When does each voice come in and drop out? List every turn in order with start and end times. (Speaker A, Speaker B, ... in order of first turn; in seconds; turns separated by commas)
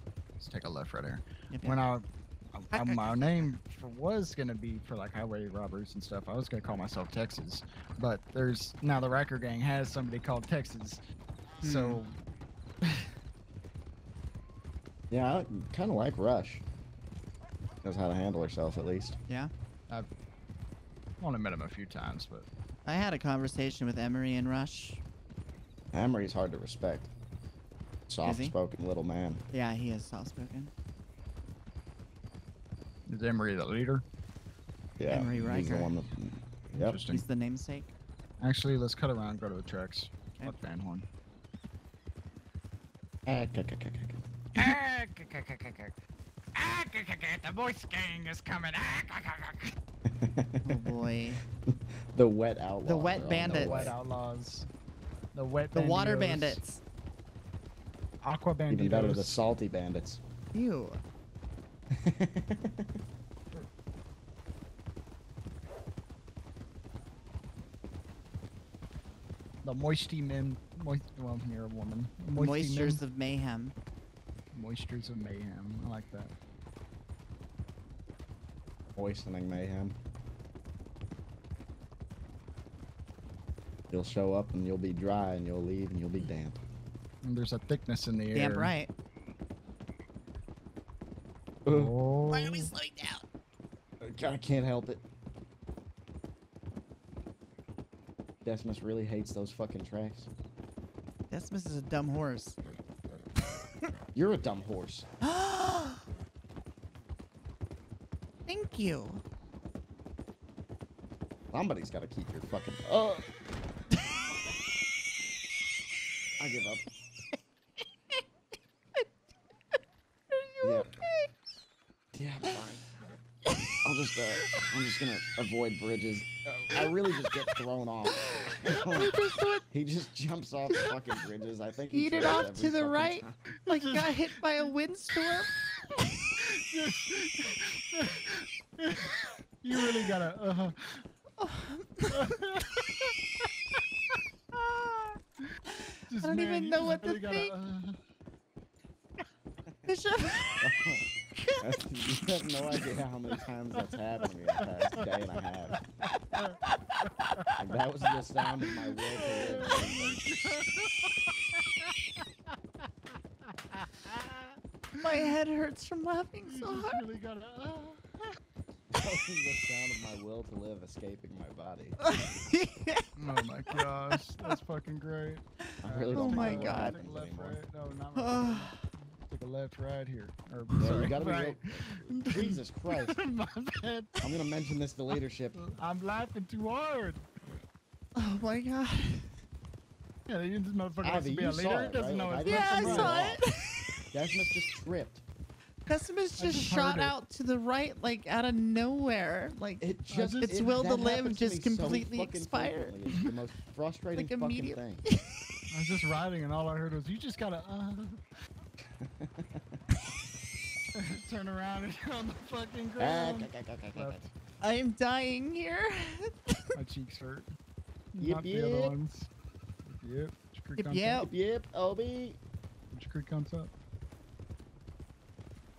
Speaker A: 0.4-11.0, Speaker B: 1.5-1.8, Speaker B: 2.7-3.5, Speaker B: 11.6-12.0, Speaker A: 11.6-12.2, Speaker A: 12.8-13.1, Speaker C: 15.1-16.6, Speaker C: 17.8-19.2, Speaker A: 21.2-22.5, Speaker B: 22.8-25.0, Speaker C: 25.9-27.1, Speaker C: 28.1-29.4, Speaker B: 28.2-28.5, Speaker B: 29.5-30.7, Speaker A: 33.1-34.0, Speaker C: 35.0-37.0, Speaker B: 35.1-35.9, Speaker A: 36.8-37.2, Speaker B: 37.1-37.9, Speaker A: 38.4-41.1, Speaker B: 40.4-40.6, Speaker C: 43.3-44.7, Speaker A: 44.5-45.9, Speaker A: 46.5-49.7, Speaker C: 50.0-51.0, Speaker B: 50.6-51.4, Speaker C: 51.7-54.0, Speaker B: 52.8-53.9, Speaker A: 53.5-54.7, Speaker A: 55.3-56.6, Speaker B: 55.7-56.8, Speaker A: 58.2-59.4, Speaker C: 58.7-60.2, Speaker B: 60.5-61.0, Speaker C: 61.9-62.9, Speaker A: 69.6-73.0, Speaker B: 72.3-73.7, Speaker A: 74.5-76.3, Speaker C: 79.0-80.0, Speaker C: 83.9-86.6, Speaker A: 87.2-88.7, Speaker B: 88.3-88.9, Speaker C: 91.6-91.9, Speaker A: 91.7-92.7, Speaker B: 92.3-93.2, Speaker C: 94.0-95.0, Speaker C: 98.4-100.3, Speaker B: 101.3-102.6, Speaker C: 104.1-105.1, Speaker B: 105.2-106.0, Speaker B: 108.5-109.2, Speaker C: 111.5-113.3, Speaker C: 116.4-116.8, Speaker B: 120.3-121.3, Speaker C: 120.6-120.9, Speaker C: 122.1-122.8, Speaker C: 123.8-129.1, Speaker B: 128.2-129.6, Speaker C: 129.7-133.3, Speaker B: 131.9-135.5, Speaker A: 133.7-134.7, Speaker A: 136.4-141.1, Speaker B: 141.4-142.3, Speaker A: 142.1-143.1, Speaker B: 145.7-147.5, Speaker A: 146.1-148.0, Speaker B: 149.8-150.7, Speaker C: 150.6-151.1, Speaker B: 151.3-151.6, Speaker C: 151.6-155.8, Speaker A: 157.3-157.6, Speaker C: 157.6-160.2, Speaker A: 158.7-162.5, Speaker A: 163.4-165.3, Speaker B: 164.9-167.0, Speaker A: 166.5-168.3, Speaker C: 168.9-172.0, Speaker B: 172.0-173.1, Speaker A: 173.2-184.2, Speaker B: 173.8-174.5, Speaker B: 175.6-177.0, Speaker C: 175.8-177.6, Speaker B: 178.1-178.8, Speaker C: 180.8-183.2, Speaker C: 184.2-185.6, Speaker A: 185.5-187.3, Speaker B: 188.2-189.4, Speaker A: 190.3-193.3, Speaker C: 191.0-193.4, Speaker B: 192.4-194.0, Speaker C: 194.1-195.2, Speaker B: 195.8-199.8, Speaker A: 196.4-197.1, Speaker C: 199.8-205.0, Speaker A: 200.1-200.7, Speaker B: 200.4-203.0, Speaker B: 204.2-205.2, Speaker A: 205.7-208.2, Speaker C: 209.0-209.6, Speaker A: 210.9-214.3, Speaker C: 213.0-214.3, Speaker B: 214.6-216.7, Speaker A: 216.7-217.5, Speaker A: 218.1-219.3, Speaker C: 218.2-218.9, Speaker A: 219.8-221.2, Speaker B: 220.8-221.3, Speaker C: 221.1-222.4, Speaker A: 222.9-223.7